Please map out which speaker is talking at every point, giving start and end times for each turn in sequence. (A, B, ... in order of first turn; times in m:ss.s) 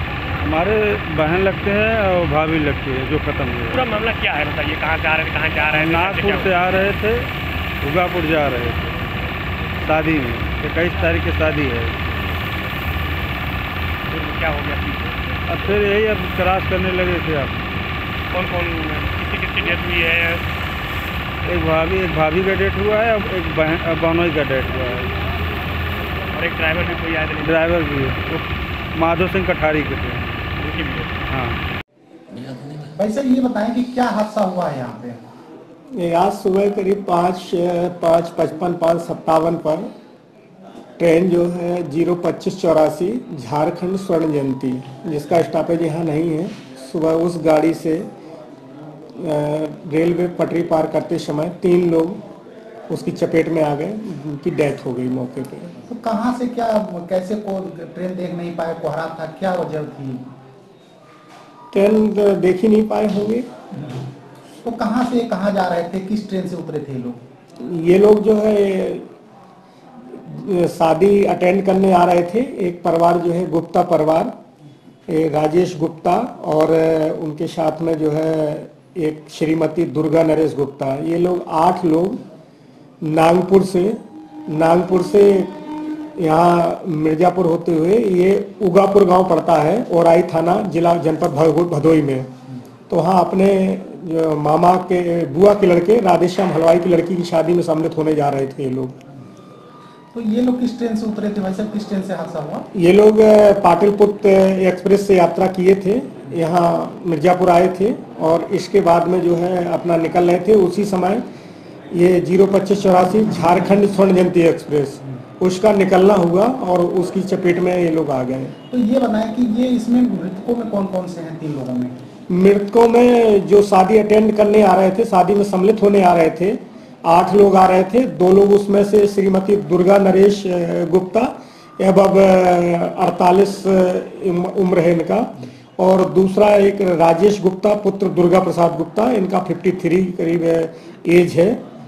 0:00.4-0:03.8 A
0:03.7-0:06.5 B
0:05.7-0:07.3 A
0:07.8-0:08.9 A
0:09.8-0:12.0 A
0:14.1-0:15.2 B
0:15.5-0:17.6 A
0:18.3-0:20.4 B
0:21.4-0:25.1 A
0:26.3-0:27.7 B
0:27.4-0:30.5 A
0:30.6-0:31.2 B
0:31.3-0:31.6 A
0:32.6-0:35.2 C
0:35.9-0:39.9 D
0:41.0-0:48.1 D
0:49.2-0:52.2 D
0:52.9-0:55.8 D
0:55.9-1:00.3 C
1:01.7-1:03.5 D
1:04.6-1:07.2 C
1:07.6-1:09.1 D
1:10.0-1:14.3 D
1:15.1-1:22.2 D
1:23.0-1:25.6 D
1:26.2-1:32.3 D
1:32.9-1:39.0 D
1:40.1-1:42.7 C
1:42.7-1:51.2 D
1:51.9-1:58.5 D
1:58.7-2:02.0 C
2:02.3-2:21.6 D